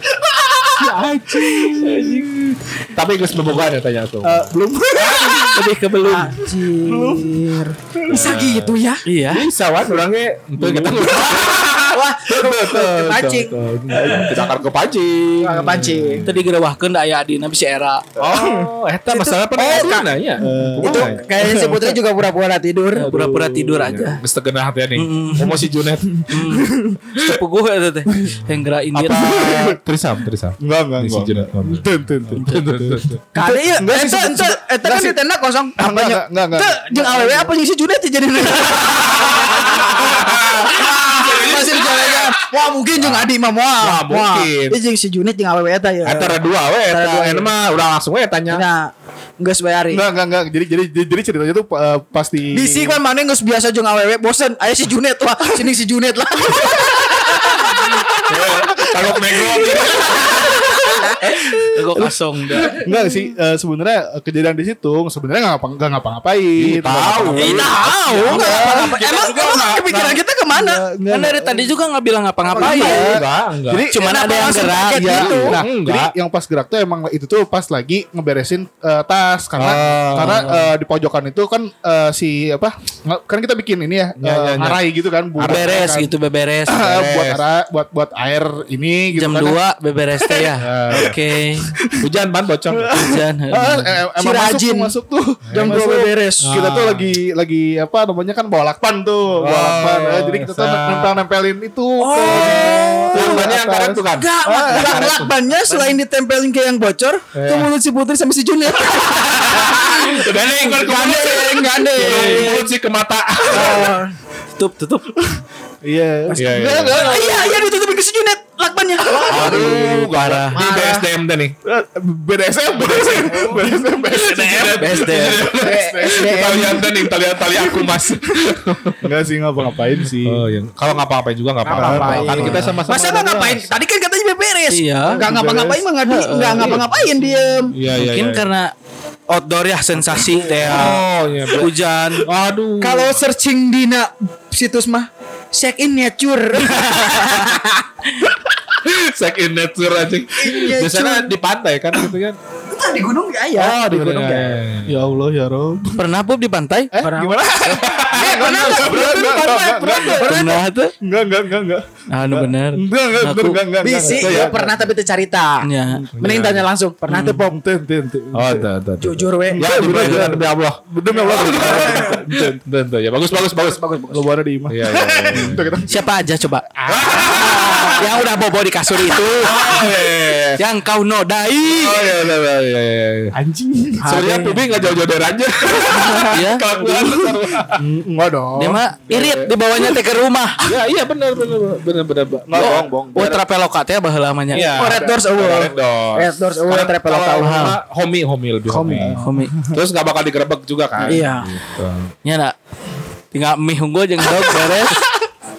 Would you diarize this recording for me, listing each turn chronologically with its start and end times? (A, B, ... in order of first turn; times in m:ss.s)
0:00.8-0:05.6 A
0:01.5-0:02.3 B
0:04.2-0:06.4 B
0:06.1-0:09.0 C
0:06.9-0:08.2 D
0:08.1-0:16.5 A
0:09.0-0:09.5 B
0:10.6-0:10.9 D
0:11.1-0:14.4 C
0:13.9-0:14.5 D
0:15.4-0:16.2 C
0:16.2-0:18.0 B
0:18.2-0:18.7 D
0:18.2-0:21.3 A
0:19.1-0:20.2 C
0:20.4-0:22.0 D
0:20.8-0:23.1 C
0:23.0-0:24.2 B
0:23.1-0:26.2 A
0:25.0-0:25.7 B
0:26.2-0:27.0 D
0:26.3-0:29.5 B
0:28.1-0:28.4 D
0:29.0-0:33.2 A
0:29.0-0:29.8 D
0:30.6-0:35.2 D
0:32.4-0:32.7 B
0:33.3-0:47.5 C
0:35.8-0:37.6 D
0:38.7-0:44.8 A
0:46.0-0:48.6 A
0:48.5-0:50.0 C
0:49.9-0:53.0 D
0:52.5-1:01.6 C
0:57.4-1:01.3 A
1:01.6-1:02.8 B
1:02.0-1:07.6 D
1:02.9-1:03.2 C
1:06.6-1:09.6 A
1:07.4-1:09.8 B
1:07.4-1:10.8 C
1:08.5-1:08.7 D
1:10.5-1:11.7 D
1:11.1-1:13.2 B
1:12.5-1:13.2 C
1:12.6-1:13.9 A
1:12.6-1:26.1 D
1:13.9-1:15.5 B
1:14.0-1:15.6 C
1:15.0-1:16.1 A
1:19.6-1:20.7 A
1:20.2-1:20.6 B
1:24.2-1:24.8 A
1:25.4-1:25.8 A
1:25.4-1:26.9 B
1:26.7-1:29.6 D
1:26.8-1:27.4 A
1:29.1-1:31.8 B
1:30.2-1:31.2 D
1:30.6-1:31.2 A
1:31.7-1:32.1 D
1:32.0-1:33.0 A
1:32.7-1:45.1 D
1:32.9-1:34.0 B
1:34.2-1:34.9 C
1:35.5-1:35.8 A
1:35.5-1:36.6 C
1:36.4-1:37.1 A
1:39.4-1:41.2 A
1:42.0-1:43.5 C
1:42.2-1:45.3 A
1:44.1-1:52.6 C
1:45.7-1:46.0 B
1:47.3-1:47.7 A
1:48.9-1:54.0 A
1:52.0-1:52.6 B
1:53.5-1:54.1 C
1:54.6-1:55.3 B
1:55.8-1:57.6 D
1:56.3-2:01.1 C
1:56.4-1:57.2 A
1:59.3-2:01.6 A
1:59.4-2:00.6 B
2:01.6-2:06.7 D
2:02.9-2:03.2 A
2:04.1-2:05.4 B
2:04.4-2:09.1 A
2:05.6-2:07.1 C
2:09.0-2:10.5 D
2:10.2-2:13.7 A
2:11.6-2:17.8 C
2:11.7-2:12.7 D
2:12.3-2:12.8 B
2:14.7-2:15.2 B
2:15.2-2:15.8 D
2:16.1-2:16.8 B
2:16.6-2:16.9 A
2:17.7-2:18.5 A
2:17.9-2:18.7 B
2:19.3-2:21.0 B
2:20.6-2:23.1 A
2:21.6-2:22.3 B
2:22.8-2:27.9 C
2:26.7-2:27.4 B
2:28.8-2:32.4 A
2:30.4-2:31.3 C
2:32.7-2:34.6 C
2:33.6-2:35.0 A
2:34.9-2:36.0 D
2:36.0-2:36.9 B
2:36.9-2:44.9 D
2:37.0-2:37.4 C
2:37.6-2:39.1 A
2:38.1-2:40.5 C
2:40.1-2:41.0 B
2:42.1-2:43.6 B
2:43.8-2:47.6 C
2:44.0-2:44.5 A
2:45.6-2:46.0 B
2:46.2-2:46.7 A
2:47.1-2:47.4 B
2:47.4-2:48.7 D
2:48.3-2:53.8 A
2:49.0-2:49.6 C
2:49.6-2:50.4 B
2:49.6-2:52.6 D
2:51.3-2:52.2 C
2:53.6-2:54.2 C
2:54.1-2:56.0 D
2:54.7-2:55.8 A
2:55.9-2:56.6 B
2:56.8-2:57.9 D
2:56.9-2:58.2 A
2:57.2-2:59.8 C
2:59.4-3:00.6 A
3:00.6-3:02.2 B
3:01.7-3:03.3 A
3:03.3-3:04.2 D
3:04.0-3:04.6 C
3:04.0-3:07.8 A
3:05.9-3:06.3 C
3:06.3-3:07.0 B
3:07.7-3:08.8 D
3:08.6-3:10.6 B
3:09.1-3:09.5 A
3:10.6-3:12.9 A
3:12.5-3:13.4 D
3:12.5-3:14.7 B
3:14.5-3:22.1 A
3:14.6-3:15.2 D
3:14.8-3:17.7 C
3:17.4-3:17.8 B
3:18.7-3:19.2 C
3:19.2-3:19.6 B
3:21.1-3:21.5 C
3:22.2-3:22.5 B
3:23.3-3:25.0 B